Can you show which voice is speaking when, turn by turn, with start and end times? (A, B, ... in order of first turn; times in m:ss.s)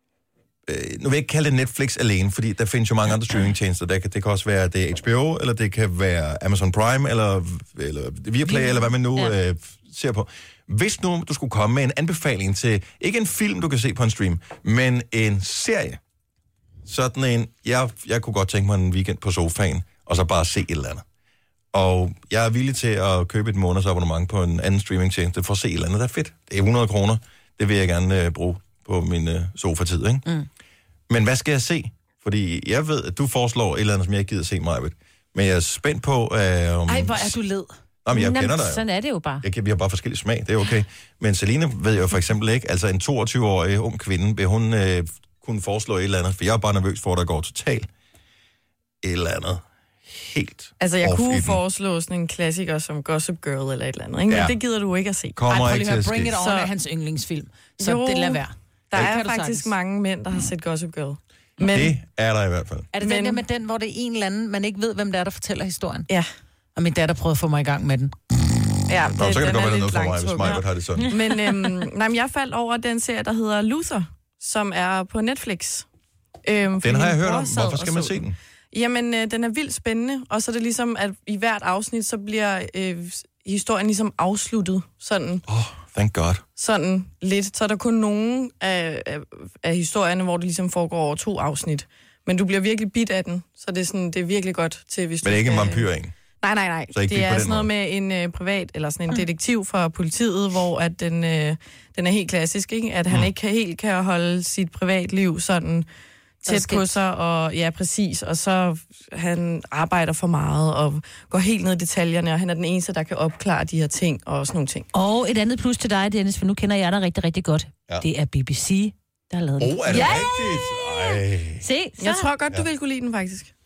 0:00.7-0:16.0 A
0:08.5-0:09.3 B
0:16.9-0:21.0 A
0:21.7-0:30.3 A
0:31.1-0:37.4 A
0:36.9-0:37.7 C
0:38.0-0:38.8 A
0:38.1-0:39.4 B
0:39.4-0:47.9 A
0:49.0-0:51.6 A
0:50.8-0:55.4 D
0:54.3-0:54.6 A
0:55.4-0:56.4 A
0:55.5-0:59.7 C
0:56.3-0:56.7 D
0:57.8-1:02.0 D
1:01.7-1:02.9 A
1:02.9-1:06.1 C
1:03.0-1:03.4 D
1:06.8-1:08.1 C
1:08.9-1:15.9 D
1:09.1-1:11.2 A
1:16.4-1:18.2 D
1:16.8-1:18.4 A
1:18.7-1:25.4 D
1:25.5-1:26.4 A
1:26.6-1:35.9 D
1:35.2-1:36.1 A
1:36.4-1:45.9 D
1:36.9-1:37.7 A
1:46.4-1:54.9 D
1:46.5-1:46.9 C
1:54.9-2:02.3 B
1:59.6-2:01.7 A
2:02.0-2:03.5 D